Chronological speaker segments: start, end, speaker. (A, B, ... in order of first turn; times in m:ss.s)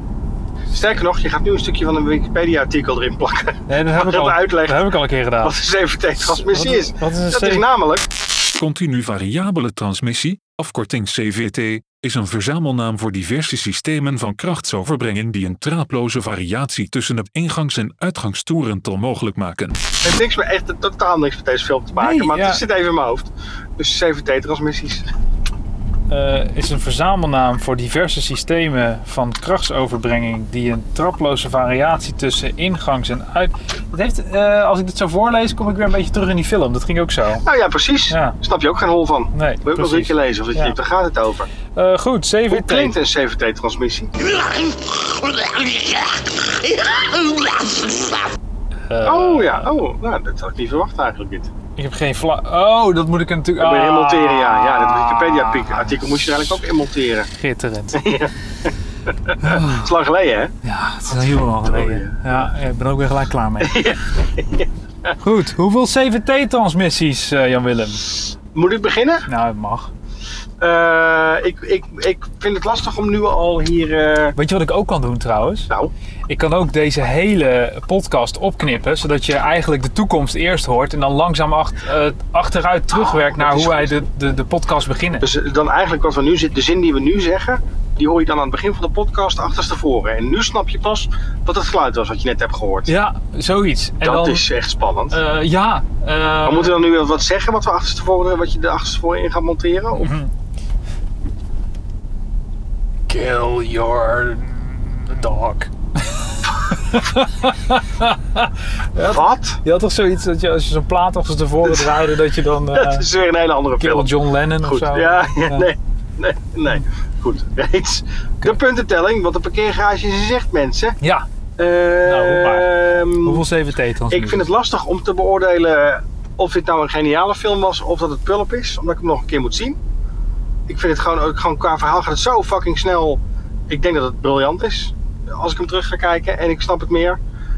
0:00.7-0:08.1 A
0:03.7-0:05.6 B
0:06.2-0:07.7 B
0:08.6-0:19.8 C
0:20.0-0:25.1 A
0:22.0-0:22.6 B
0:26.1-0:37.4 B
0:37.4-0:41.5 A
0:38.1-0:38.4 B
0:39.3-0:40.8 B
0:41.7-0:43.0 B
0:42.5-0:44.1 A
0:45.4-0:46.0 B
0:48.9-0:49.7 B
0:49.0-0:51.5 A
0:51.8-0:56.6 B
0:53.6-0:57.3 A
0:57.3-0:58.0 B
0:57.9-1:00.5 A
0:59.4-0:59.9 B
1:00.6-1:03.9 B
1:01.6-1:02.5 A
1:03.6-1:05.2 A
1:05.2-1:08.1 B
1:08.5-1:09.3 A
1:09.3-1:09.9 B
1:10.6-1:14.4 A
1:14.4-1:15.7 B
1:16.3-1:25.3 B
1:22.9-1:23.9 A
1:25.2-1:32.9 A
1:32.9-1:34.5 B
1:34.0-1:35.2 A
1:35.1-1:36.9 B
1:36.4-1:40.2 A
1:40.0-1:40.3 B
1:43.1-1:53.1 B
1:49.0-1:49.6 A
1:51.7-1:51.9 A
1:52.7-2:01.0 A
1:53.8-1:55.7 B
2:01.0-2:01.3 B
2:01.6-2:03.4 A
2:02.0-2:04.5 B
2:04.1-2:09.8 A
2:10.7-2:17.2 A